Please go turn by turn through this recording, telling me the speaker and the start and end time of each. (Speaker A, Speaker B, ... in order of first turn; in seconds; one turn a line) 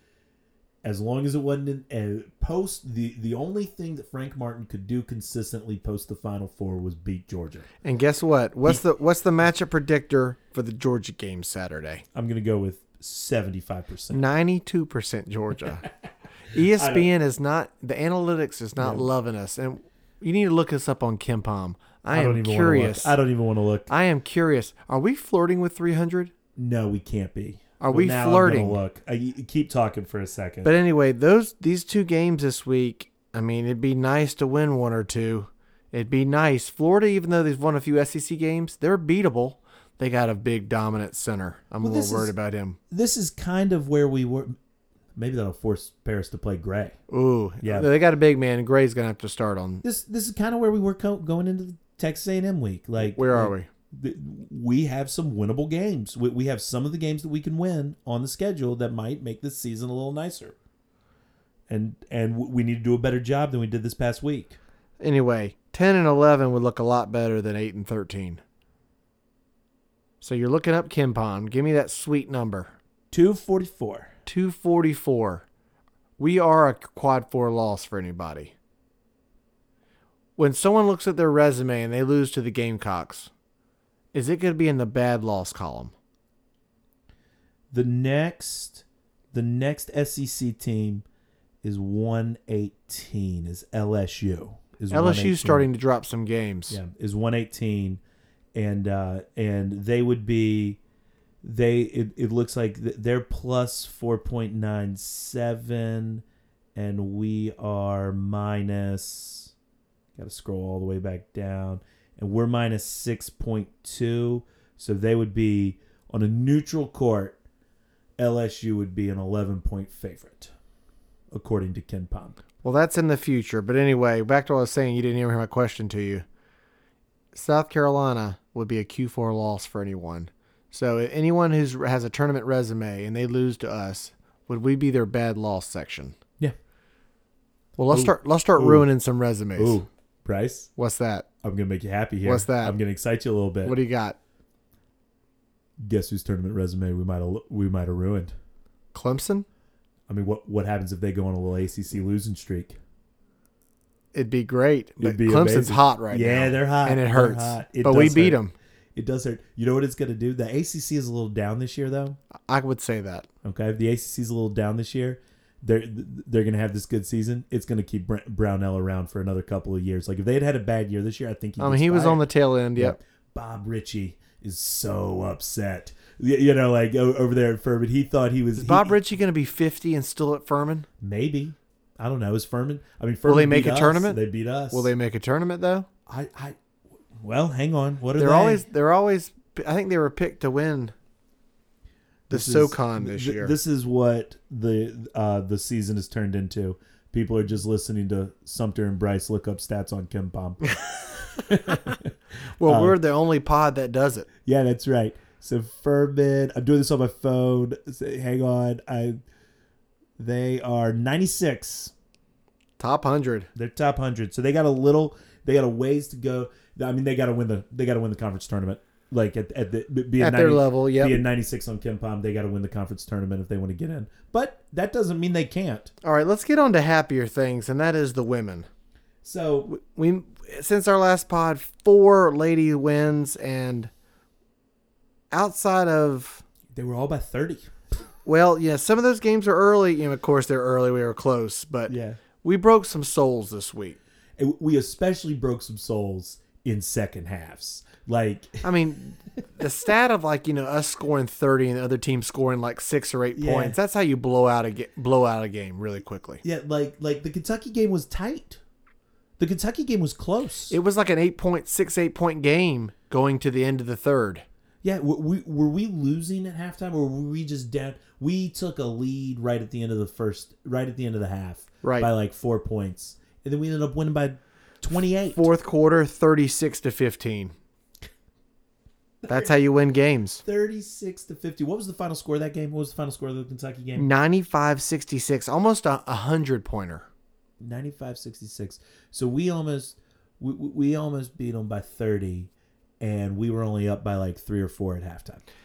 Speaker A: 0.8-7.7
Speaker B: 7.8-12.0
Speaker A: 12.1-14.2
Speaker B: 14.1-15.8
Speaker B: 16.5-23.1
Speaker A: 16.5-17.1
Speaker A: 18.8-19.1
Speaker A: 22.1-23.9
Speaker B: 23.9-26.3
Speaker A: 26.6-30.7
Speaker B: 27.8-28.8
Speaker B: 30.6-42.8
Speaker A: 41.8-42.3
Speaker A: 42.9-44.5
Speaker A: 45.1-47.0
Speaker B: 47.1-49.8
Speaker A: 47.6-47.9
Speaker A: 49.8-60.5
Speaker B: 53.0-53.7
Speaker A: 61.7-64.6
Speaker B: 65.0-68.4
Speaker B: 70.2-72.7
Speaker A: 73.1-74.1
Speaker B: 74.2-75.4
Speaker B: 76.2-78.5
Speaker B: 80.4-83.3
Speaker B: 84.1-85.9
Speaker A: 87.7-91.0
Speaker A: 91.6-95.7
Speaker B: 94.9-96.8
Speaker A: 96.7-98.0
Speaker A: 98.5-100.8
Speaker A: 101.4-106.2
Speaker A: 106.7-109.5
Speaker A: 110.2-117.4
Speaker A: 118.2-120.5
Speaker A: 121.3-122.4
Speaker B: 122.6-126.2
Speaker B: 127.3-136.2
Speaker B: 137.8-139.8
Speaker A: 137.9-138.9
Speaker A: 139.6-140.7
Speaker B: 140.8-141.3
Speaker A: 141.4-143.8
Speaker B: 142.2-142.7
Speaker B: 143.6-144.2
Speaker A: 145.8-148.3
Speaker B: 148.9-149.4
Speaker A: 150.1-152.8
Speaker B: 154.1-158.5
Speaker A: 155.0-158.4
Speaker A: 158.9-162.2
Speaker B: 162.4-163.3
Speaker A: 163.4-178.9
Speaker B: 171.6-173.0
Speaker B: 178.6-180.9
Speaker A: 181.0-184.9
Speaker B: 183.2-185.9
Speaker A: 186.1-186.6
Speaker A: 187.2-188.6
Speaker B: 188.2-190.9
Speaker A: 192.3-203.0
Speaker B: 192.3-193.5
Speaker B: 200.7-202.0
Speaker B: 202.6-204.3
Speaker A: 204.4-209.2
Speaker A: 210.2-211.9
Speaker B: 212.8-213.5
Speaker A: 213.5-225.9
Speaker B: 220.2-221.2
Speaker B: 226.0-228.7
Speaker A: 229.2-229.7
Speaker B: 229.7-233.9
Speaker B: 235.3-236.4
Speaker A: 236.7-237.7
Speaker B: 238.2-244.0
Speaker A: 241.9-242.2
Speaker A: 244.4-249.6
Speaker B: 248.6-256.4
Speaker A: 253.3-253.8
Speaker A: 256.4-258.6
Speaker A: 259.4-260.8
Speaker B: 260.7-264.4
Speaker A: 264.8-275.4
Speaker B: 271.8-272.1
Speaker B: 275.3-277.5
Speaker A: 279.2-279.5
Speaker B: 279.3-280.4
Speaker A: 280.4-284.1
Speaker B: 283.9-287.1
Speaker A: 287.6-292.5
Speaker A: 293.0-295.4